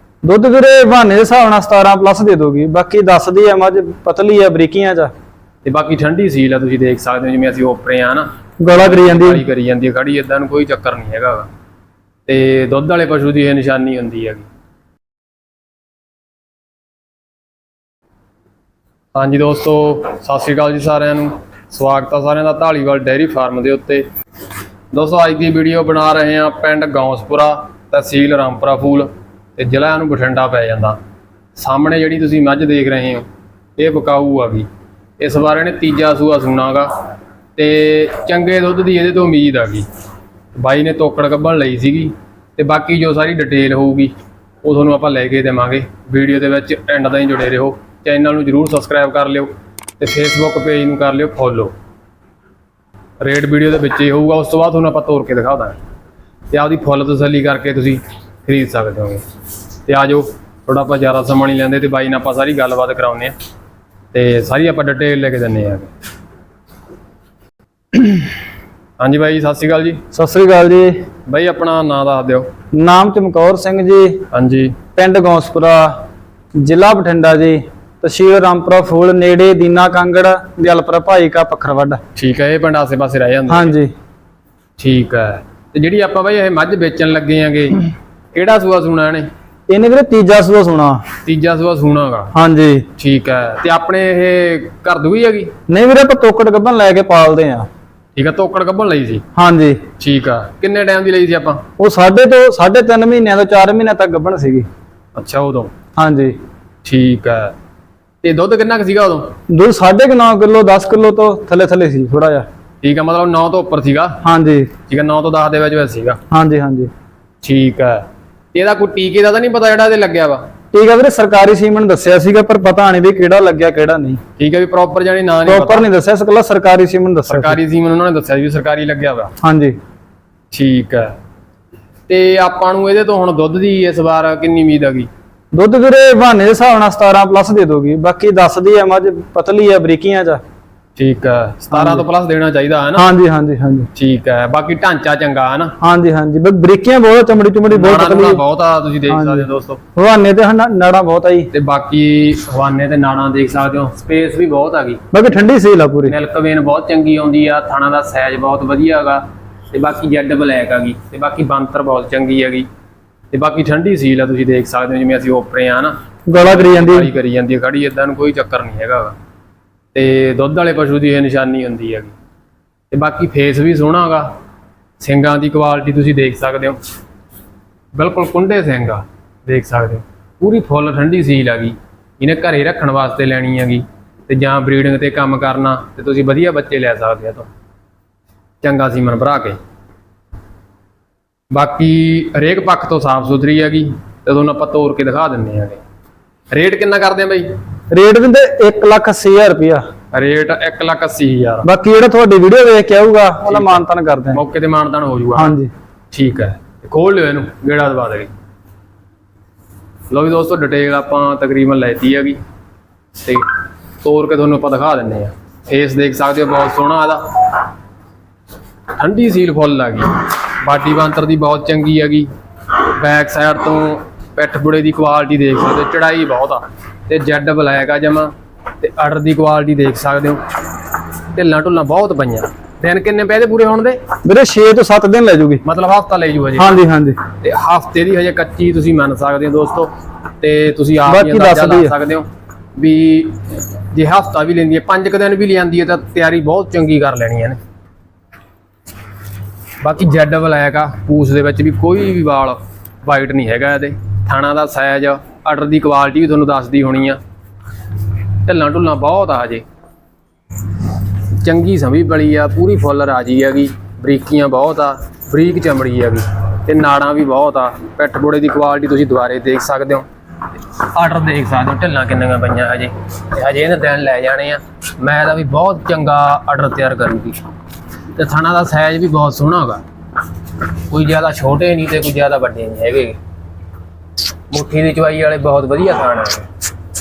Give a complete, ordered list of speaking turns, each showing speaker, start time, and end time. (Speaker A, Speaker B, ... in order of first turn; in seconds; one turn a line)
Speaker A: 0.2-5.1
Speaker B: 5.6-11.5
Speaker A: 8.6-9.4
Speaker B: 12.3-14.5
Speaker B: 19.1-24.1
Speaker B: 24.9-31.0
Speaker B: 31.6-33.2
Speaker B: 33.8-34.7
Speaker B: 35.2-37.0
Speaker B: 37.5-39.9
Speaker B: 40.5-51.7
Speaker B: 53.2-55.8
Speaker B: 56.5-59.2
Speaker B: 59.9-63.3
Speaker B: 64.1-65.9
Speaker B: 69.0-70.0
Speaker A: 70.1-71.0
Speaker B: 71.3-72.5
Speaker A: 72.7-74.2
Speaker B: 74.3-74.8
Speaker A: 75.0-76.0
Speaker A: 76.6-82.0
Speaker B: 82.1-83.8
Speaker A: 83.5-83.9
Speaker B: 84.8-89.3
Speaker A: 89.7-91.0
Speaker B: 91.2-92.3
Speaker A: 92.3-92.8
Speaker B: 93.0-95.5
Speaker A: 95.7-97.7
Speaker B: 98.1-99.2
Speaker A: 99.3-99.8
Speaker B: 100.0-101.6
Speaker A: 101.8-104.7
Speaker B: 105.1-105.7
Speaker A: 106.0-106.4
Speaker B: 106.8-107.5
Speaker B: 108.2-109.3
Speaker A: 109.5-112.5
Speaker B: 112.8-114.2
Speaker A: 114.2-114.7
Speaker B: 114.9-116.2
Speaker A: 116.3-116.9
Speaker B: 117.4-120.5
Speaker A: 120.7-124.2
Speaker B: 124.4-125.8
Speaker A: 125.5-127.6
Speaker B: 127.3-129.3
Speaker A: 129.4-129.8
Speaker B: 130.5-131.1
Speaker B: 132.1-135.1
Speaker A: 135.5-140.4
Speaker B: 140.9-143.1
Speaker A: 141.7-142.1
Speaker A: 142.9-143.9
Speaker B: 143.9-145.7
Speaker A: 145.8-148.4
Speaker B: 147.7-149.8
Speaker A: 149.1-151.5
Speaker B: 151.5-155.0
Speaker A: 155.1-156.2
Speaker B: 156.1-162.7
Speaker B: 163.3-169.1
Speaker A: 166.3-167.1
Speaker B: 169.9-172.1
Speaker B: 172.9-174.3
Speaker B: 175.0-176.8
Speaker B: 177.9-187.5
Speaker B: 188.6-189.6
Speaker B: 191.5-195.8
Speaker B: 196.5-197.5
Speaker A: 197.9-199.8
Speaker B: 200.1-201.7
Speaker A: 201.6-204.4
Speaker B: 203.4-205.6
Speaker A: 205.3-205.7
Speaker B: 206.1-208.3
Speaker B: 210.1-212.4
Speaker B: 213.2-213.5
Speaker B: 214.0-217.5
Speaker B: 218.9-230.4
Speaker B: 231.3-234.0
Speaker A: 234.2-235.6
Speaker B: 235.6-236.8
Speaker A: 236.6-237.2
Speaker B: 237.4-247.6
Speaker A: 241.1-241.9
Speaker B: 249.8-257.2
Speaker B: 258.4-259.6
Speaker B: 261.3-277.4
Speaker B: 278.1-279.8
Speaker B: 280.6-283.2
Speaker B: 284.5-286.5